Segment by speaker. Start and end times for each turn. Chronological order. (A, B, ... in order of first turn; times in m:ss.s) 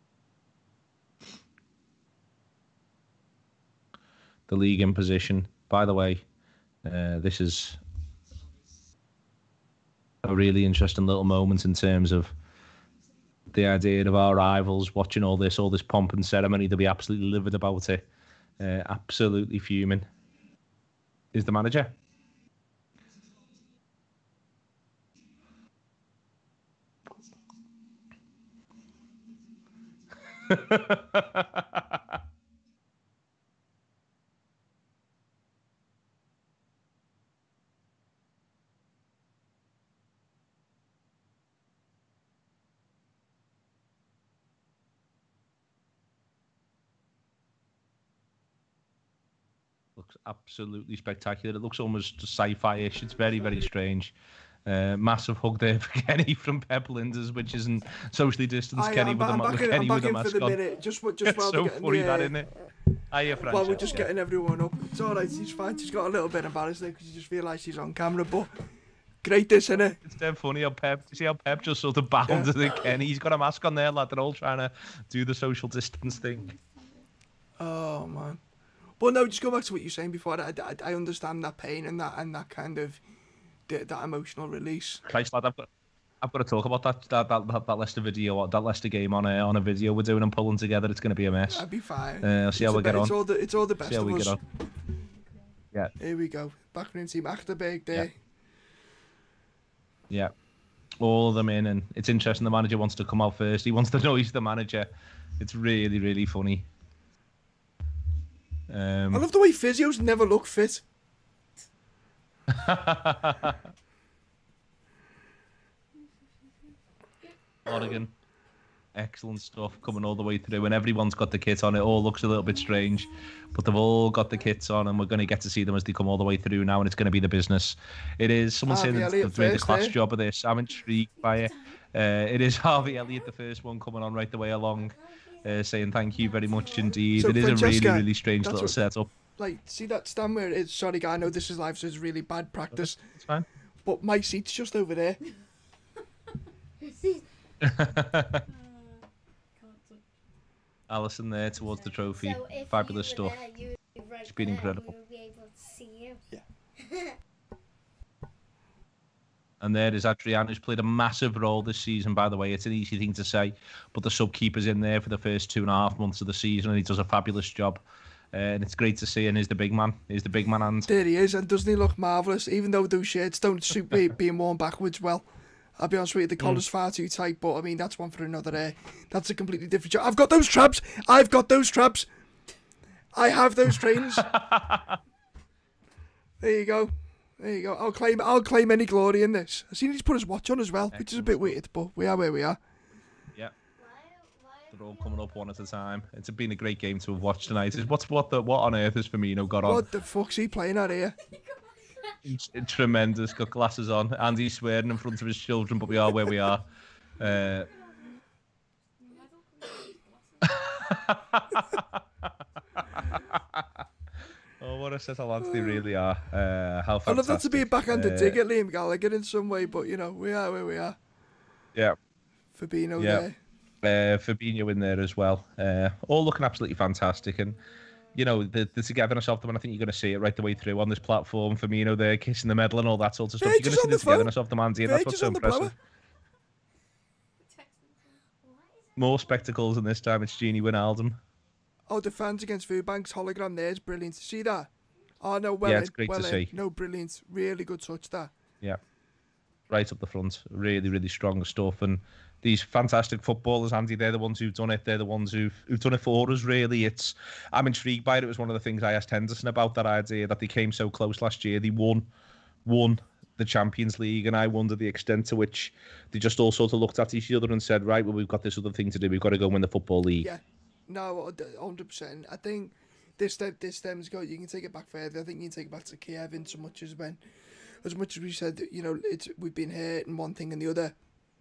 0:04.5-0:06.2 A
0:06.8-0:07.8 A
0:10.2-0:12.3 A
0:13.5-0:18.0 A
0:18.6-0:20.0 A
0:21.3-0:22.0 A
0:30.3-0:32.0 A
0:50.0-0:54.1 A
0:54.6-1:00.6 A
0:58.8-1:02.3 B
1:01.2-1:02.5 A
1:03.1-1:04.1 A
1:03.4-1:08.5 B
1:09.2-1:10.0 B
1:09.8-1:16.5 A
1:12.3-1:12.5 B
1:17.6-1:18.4 B
1:19.0-1:23.0 B
1:23.7-1:25.0 B
1:25.0-1:25.7 A
1:26.2-1:31.6 A
1:31.5-1:34.4 B
1:32.2-1:33.2 A
1:33.8-1:34.4 A
1:36.0-1:38.1 B
1:41.0-1:46.7 A
1:48.7-1:49.2 A
1:49.1-1:50.8 B
1:52.5-1:53.6 A
1:57.6-1:58.1 A
1:58.9-2:19.1 A
2:08.7-2:10.0 B
2:14.9-2:15.5 C
2:16.3-2:17.0 C
2:17.2-2:18.8 B
2:19.4-2:23.0 B
2:22.7-2:23.5 A
2:23.8-2:25.2 B
2:26.8-2:27.2 C
2:27.6-2:28.4 A
2:28.5-2:29.0 C
2:29.6-2:30.0 C
2:30.9-2:33.4 A
2:32.1-2:36.2 C
2:34.2-2:34.8 A
2:36.8-2:37.1 C
2:39.6-2:47.8 A
2:48.3-2:50.9 A
2:50.9-2:55.2 B
2:55.8-3:02.1 B
3:03.1-3:04.3 B
3:04.1-3:05.0 A
3:06.4-3:12.6 B
3:10.9-3:11.6 A
3:13.8-3:15.2 C
3:14.7-3:19.8 A
3:19.6-3:21.2 B
3:21.2-3:22.2 C
3:22.2-3:26.6 A
3:27.2-3:27.7 A
3:29.0-3:30.0 C
3:30.4-3:32.4 A
3:32.9-3:33.8 A
3:34.6-3:38.4 A
3:35.4-3:35.8 B
3:37.0-3:41.0 B
3:42.6-3:43.4 B
3:43.0-3:43.2 A
3:43.8-3:47.6 A
3:48.1-3:55.7 A
3:53.4-3:55.7 B
3:57.5-3:59.2 C
3:59.0-4:01.2 A
4:01.9-4:08.3 B
4:05.6-4:06.5 A
4:09.7-4:22.1 A
4:22.6-4:30.3 A
4:30.2-4:37.2 B
4:37.8-4:40.9 B